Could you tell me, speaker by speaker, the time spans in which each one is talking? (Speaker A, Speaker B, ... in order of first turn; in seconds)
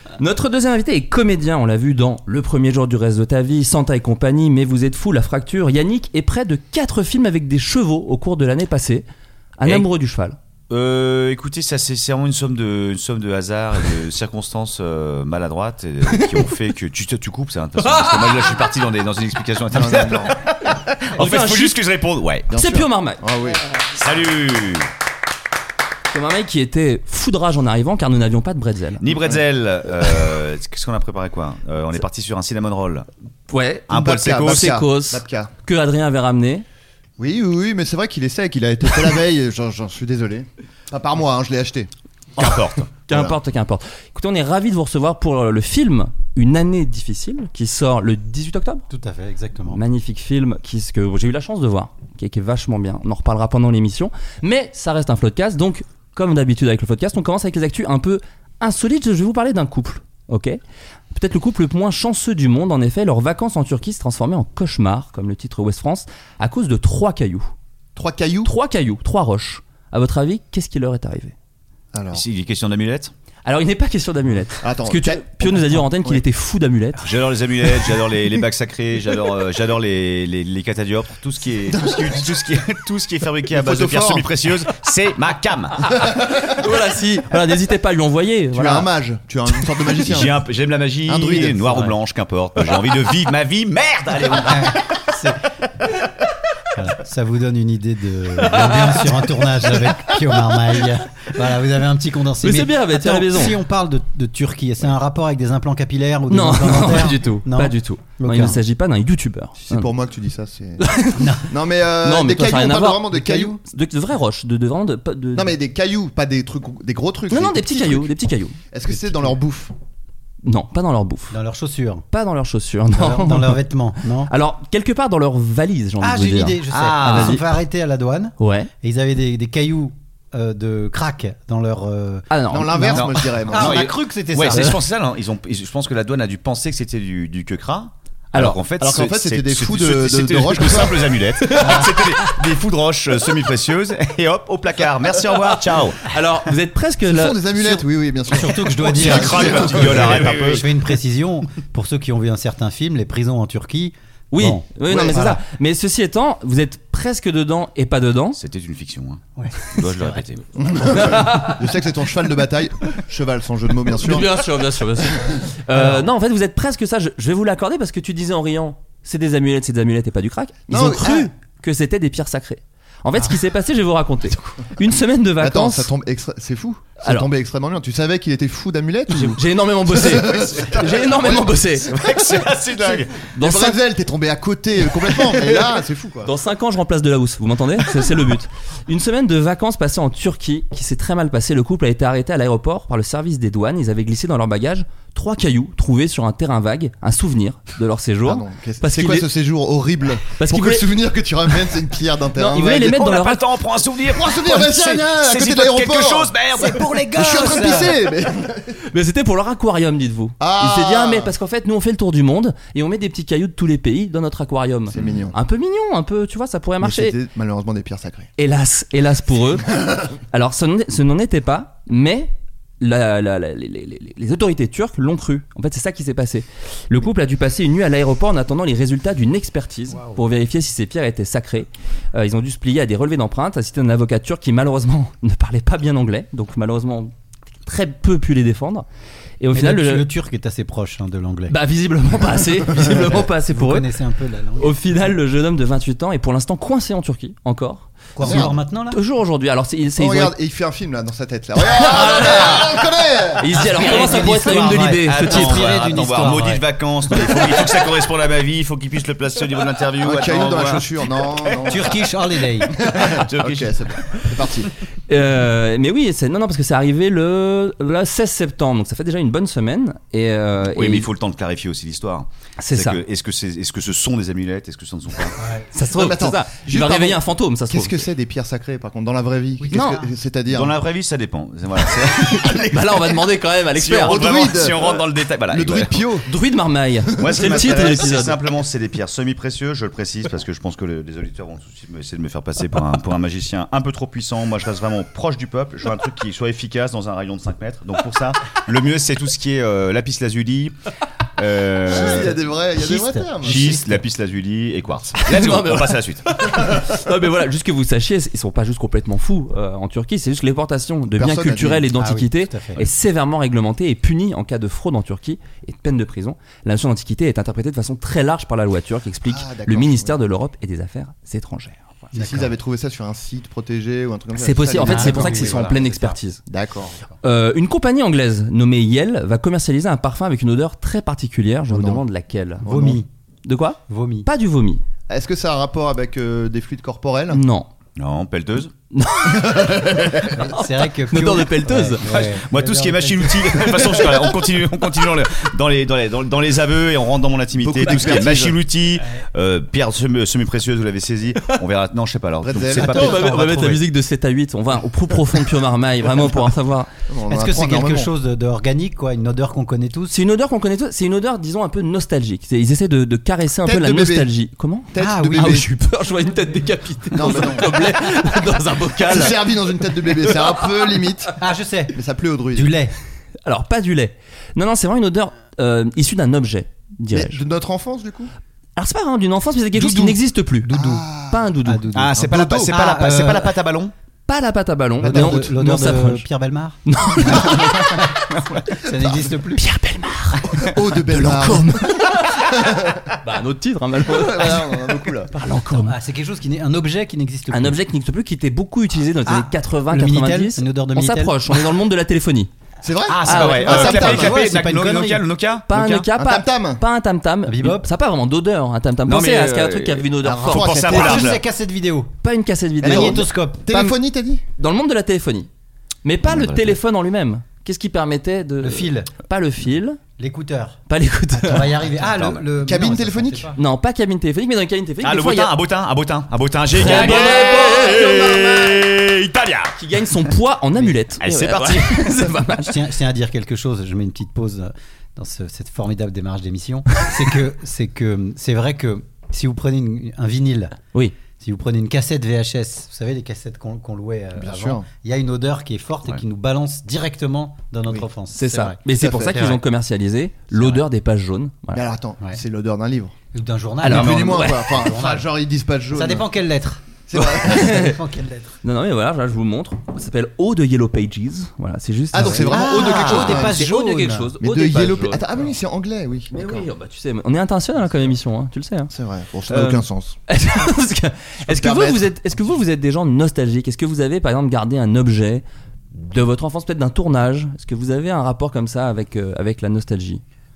Speaker A: 0.2-9.0, 9.6-10.3, 16.1-16.4, 17.8-18.5, 21.1-21.8, 22.5-23.2, 26.1-29.0, 33.5-36.6, 43.1-48.9, 49.7-60.6, 61.1-67.5, 68.4-71.3, 73.4-77.0, 85.9-88.9, 102.4-103.6, 106.3-109.9, 110.8-111.5, 112.0-115.5, 117.3-118.6, 120.4-121.3, 122.1-123.7, 124.3-126.6, 128.4-128.7, 132.3-132.9, 138.3-138.6, 141.4-142.3, 146.1-147.8, 154.3-158.4, 160.9-161.6, 163.9-175.9, 177.0-177.3, 179.1-181.9, 183.3-183.8, 186.2-199.3, 200.3-200.9, 202.3-203.4, 208.9-217.2, 218.4-237.1, 237.7-238.8, 239.4-240.1, 241.5-243.9, 244.6-250.3, 251.7-252.8, 253.4-255.7, 265.1-271.1, 272.6-273.0, 275.7-277.9, 279.7-280.0, 282.7-284.2, 286.2-288.4, 305.2-322.0, 324.3-326.4, 327.2-334.8, 337.3-337.7, 338.9-342.0, 347.9-348.2, 352.8-356.9, 360.1-369.5, 370.2-371.0, 373.4-377.4, 378.8-380.7, 381.3-381.9, 384.3-386.2, 386.9-388.2, 389.5-392.5, 393.2-396.0, 397.5-402.5, 403.2-404.1, 405.7-410.9, 412.2-413.9, 414.6-415.5, 416.0-420.0, 420.9-421.8, 423.6-425.5, 426.7-428.8, 429.8-432.7, 448.3-451.8, 453.8-454.7, 457.1-458.0, 458.6-465.2, 466.3-468.9, 469.5-480.2
Speaker B: 10.7-22.5, 23.9-24.9, 29.0-33.1, 33.9-34.8, 42.4-42.9, 72.1-73.1, 77.0-86.0, 89.9-95.1, 126.7-127.5, 132.9-146.0, 148.8-150.7, 158.3-160.8, 180.2-183.2, 202.7-207.9, 255.0-262.0, 262.7-264.3, 270.8-275.4, 280.5-283.1, 283.7-286.2, 287.2-300.7, 301.4-302.4, 303.4-306.2, 325.4-325.8, 338.0-338.7, 342.0-353.8, 381.9-383.9, 403.1-406.0, 409.1-411.4, 416.2-416.8, 422.0-422.4, 425.0-429.8, 431.2-432.2, 453.9-454.5, 462.6-463.4
Speaker C: 19.7-20.4, 22.5-23.6, 33.9-35.5, 37.2-41.9, 43.1-43.4, 68.0-68.5, 71.9-72.2, 74.6-76.2, 81.7-82.2, 83.5-84.3, 88.5-90.4, 91.1-91.9, 109.6-110.8, 111.5-113.6, 115.3-118.1, 118.7-119.7, 132.5-133.8, 138.8-141.2, 147.0-150.6, 160.6-164.4, 170.7-171.3, 175.4-182.0, 182.8-186.3, 198.2-202.9, 204.1-208.8, 210.4-211.3, 214.9-215.3, 216.8-218.3, 248.2-248.5, 250.0-254.1, 260.0-262.0, 262.8-264.7, 275.9-280.8, 282.1-282.6, 284.0-286.3, 287.2-288.0, 301.9-303.8, 311.1-311.9, 319.2-320.2, 322.1-325.6, 326.5-327.1, 331.7-332.0, 332.6-333.0, 335.1-337.4, 339.2-340.4, 347.6-348.6, 352.4-353.2, 357.1-358.1, 363.6-364.3, 364.9-365.7, 367.1-367.9, 369.0-371.4, 371.9-372.7, 377.1-378.3, 380.7-381.4, 382.1-382.7, 390.6-393.1, 394.0-395.3, 402.8-404.4, 406.1-406.8, 410.2-411.3, 412.8-414.4, 422.6-423.5, 444.4-444.8, 448.9-449.5, 451.7-453.1, 453.9-456.3, 457.1-457.9, 462.1-463.6, 464.4-466.7, 468.9-470.2, 471.4-472.1
Speaker D: 48.9-49.8, 94.3-95.5, 96.7-108.6, 111.2-111.5, 121.3-122.0, 122.9-124.3, 126.0-134.8, 141.6-141.9, 148.3-155.4, 159.4-160.2, 206.7-207.9, 229.9-230.2, 239.5-241.6, 242.9-244.8, 248.1-249.0, 253.5-256.7, 261.6-262.8, 275.4-275.7, 279.6-280.1, 302.2-303.8, 311.9-312.9, 322.1-322.6, 324.8-325.8, 332.6-333.1, 333.9-334.3, 340.3-343.9, 353.0-353.8, 357.3-360.1, 364.9-365.7, 367.2-367.6, 371.4-372.0, 372.5-372.9, 379.7-381.1, 381.6-383.6, 385.0-389.6, 395.8-397.8, 399.2-401.7, 403.7-405.2, 407.4-407.9, 410.9-412.1, 412.8-413.7, 418.6-419.1, 420.2-420.8, 421.3-423.6, 426.8-427.7, 432.6-440.8, 441.4-449.6, 450.5-450.8, 453.3-455.3, 455.9-456.8, 457.4-458.6, 462.2-464.3